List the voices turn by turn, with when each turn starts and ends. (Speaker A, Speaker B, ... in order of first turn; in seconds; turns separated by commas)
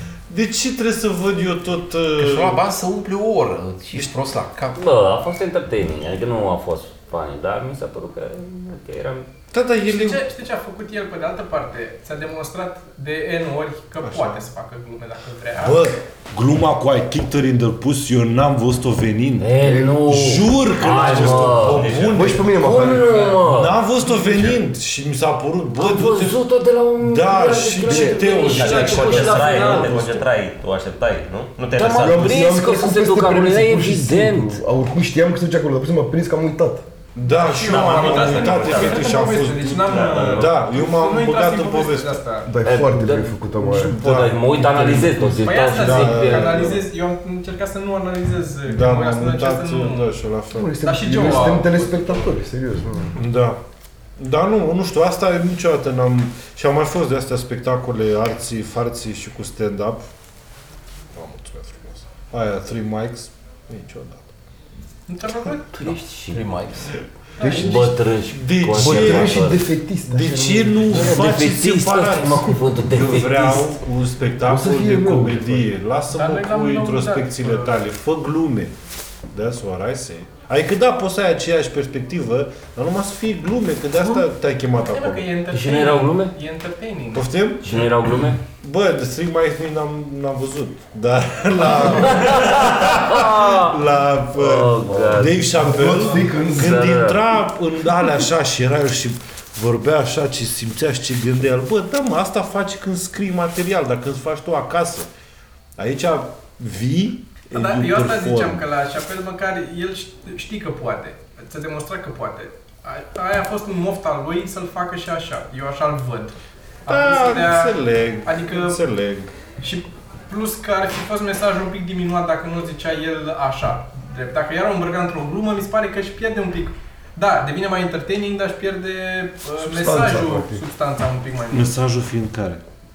Speaker A: 0.3-2.6, Speaker B: 2.2-4.8, Speaker C: 4.8-9.3, Speaker A: 9.5-10.2, Speaker D: 9.8-15.9, Speaker A: 14.0-14.4, Speaker A: 15.6-19.6, Speaker C: 19.4-23.8, Speaker E: 19.6-20.4, Speaker A: 20.1-22.6, Speaker F: 21.0-22.4, Speaker E: 21.3-23.3, Speaker A: 23.4-26.4, Speaker C: 25.8-30.1, Speaker A: 27.0-30.2, Speaker E: 27.8-28.3, Speaker F: 28.5-32.5, Speaker B: 28.5-29.3, Speaker C: 31.7-34.6, Speaker E: 31.9-36.9, Speaker A: 37.1-42.2, Speaker D: 37.2-42.5, Speaker F: 37.7-39.2, Speaker F: 39.9-40.5, Speaker E: 42.5-44.0, Speaker C: 42.6-46.8, Speaker A: 43.9-46.8, Speaker D: 45.4-50.2, Speaker A: 48.7-50.8, Speaker E: 50.5-53.2, Speaker D: 50.8-52.2, Speaker A: 53.1-53.6, Speaker A: 54.2-60.0, Speaker A: 61.1-64.3, Speaker D: 65.1-66.0, Speaker C: 65.7-66.4, Speaker B: 65.8-66.9, Speaker D: 67.4-67.9, Speaker E: 67.4-68.0, Speaker C: 67.4-69.7, Speaker A: 68.3-69.5, Speaker E: 68.7-71.3, Speaker A: 70.1-78.7, Speaker C: 70.9-73.7, Speaker E: 74.5-75.7, Speaker D: 76.1-77.8, Speaker A: 79.3-85.3, Speaker D: 84.8-87.3, Speaker C: 85.5-86.3, Speaker A: 87.1-105.1, Speaker C: 87.6-88.4, Speaker C: 92.0-93.8, Speaker C: 94.3-95.8, Speaker E: 94.8-96.9, Speaker C: 96.3-97.2, Speaker A: 105.8-108.6, Speaker D: 107.5-118.8, Speaker A: 116.9-119.3, Speaker D: 119.6-131.8, Speaker E: 129.6-130.6, Speaker A: 131.5-132.6